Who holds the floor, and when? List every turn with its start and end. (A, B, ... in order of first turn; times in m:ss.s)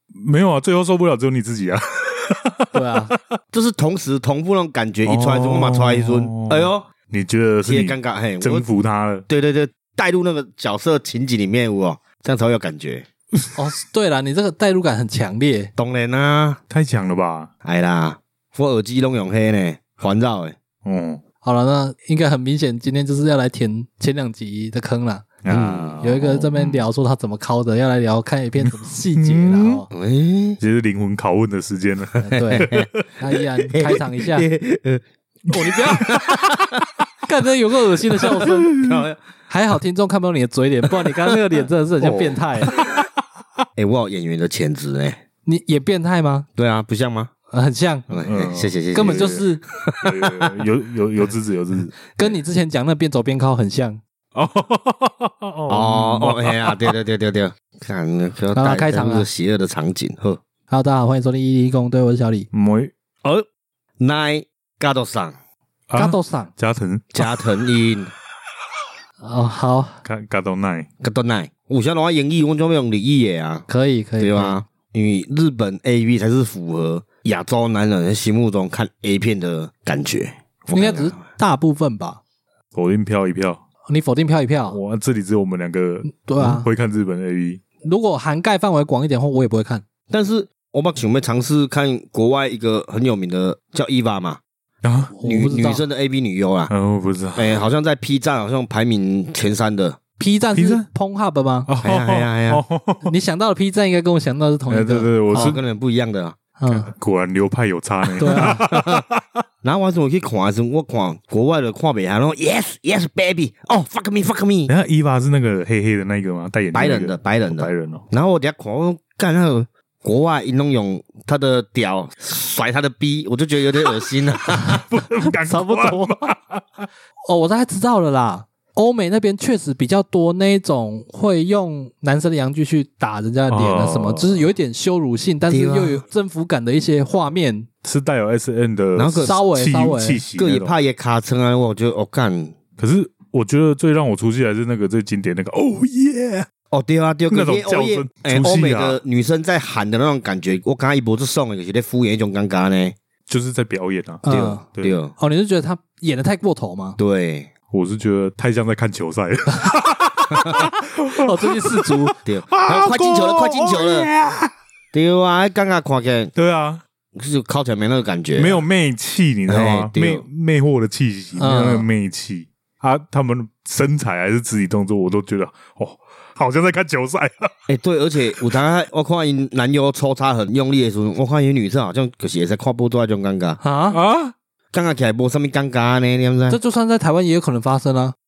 0:00.2-0:03.4 A
0:02.7-0:03.1 B
0:03.5-0:06.9 C
0:05.0-0:09.2 A
0:07.6-0:08.6 C
0:09.3-0:13.1 C
0:13.6-0:15.7 B
0:15.8-0:16.6 C
0:16.7-0:17.5 A
0:17.6-0:20.6 C
0:20.8-0:21.2 A
0:21.4-0:25.3 B
0:25.4-0:26.8 A
0:25.5-0:26.4 C
0:26.0-0:29.9 B
0:28.6-0:29.8 A
0:29.9-0:30.6 C
0:30.6-0:32.8 A
0:32.2-0:34.5 B
0:32.3-0:36.8 C
0:35.5-0:36.1 B
0:37.2-0:38.7 B
0:38.2-0:39.2 C
0:39.5-0:42.8 B
0:41.0-0:42.8 C
0:43.8-0:45.2 C
0:45.4-0:46.5 B
0:46.6-0:47.3 C
0:47.5-0:48.1 B
0:48.1-0:50.6 C
0:48.2-0:49.4 A
0:48.9-0:49.6 B
0:49.9-0:52.0 A
0:52.2-0:54.0 B
0:54.3-0:56.9 A
0:55.7-1:00.4 C
0:58.6-0:59.3 B
1:00.7-1:02.5 B
1:02.5-1:02.9 A
1:04.0-1:05.3 C
1:05.9-1:07.4 A
1:06.0-1:06.5 B
1:07.1-1:08.1 C
1:09.2-1:10.0 B
1:10.0-1:10.9 A
1:11.0-1:13.7 C
1:13.7-1:14.6 B
1:14.2-1:21.2 C
1:20.7-1:22.2 B
1:22.7-1:23.6 A
1:23.8-1:24.8 B
1:24.7-1:27.6 A
1:26.1-1:26.7 B
1:27.8-1:29.8 B
1:30.1-1:34.4 C
1:34.8-1:35.2 A
1:35.2-1:35.8 B
1:35.2-1:36.7 C
1:36.7-1:37.6 A
1:37.3-1:40.0 C
1:40.2-1:41.7 B
1:40.5-1:40.8 A
1:41.7-1:43.1 A
1:41.8-1:42.6 C
1:43.0-1:45.5 B
1:44.7-1:45.6 A
1:45.3-1:46.4 C
1:46.6-1:46.9 B
1:46.7-1:49.2 A
1:48.2-1:48.6 B
1:48.2-1:49.0 C
1:49.6-1:54.7 C
1:54.7-1:58.0 A
1:56.7-2:04.8 C
2:04.5-2:06.8 A
2:05.4-2:06.2 B
2:07.3-2:17.7 B
2:13.5-2:14.5 A
2:15.5-2:16.0 C
2:17.8-2:20.7 A
2:19.0-2:19.4 C
2:19.2-2:20.2 B
2:20.4-2:22.6 C
2:22.8-2:26.5 A
2:26.7-2:33.0 C
2:27.3-2:29.0 A
2:33.3-2:35.0 A
2:34.2-2:34.6 B
2:34.3-2:35.1 C
2:35.2-2:37.0 B
2:37.0-2:37.5 C
2:37.7-2:42.0 A
2:40.3-2:40.6 C
2:41.1-2:42.2 B
2:42.2-2:44.1 C
2:42.5-2:44.5 A
2:44.9-2:46.3 C
2:46.4-2:46.8 A
2:47.2-2:48.6 C
2:48.4-2:57.5 A
2:49.5-2:50.2 C
2:51.4-2:51.9 B
2:57.7-3:03.6 C
3:03.6-3:04.0 B
3:03.9-3:04.3 A
3:04.7-3:06.6 C
3:06.5-3:08.2 B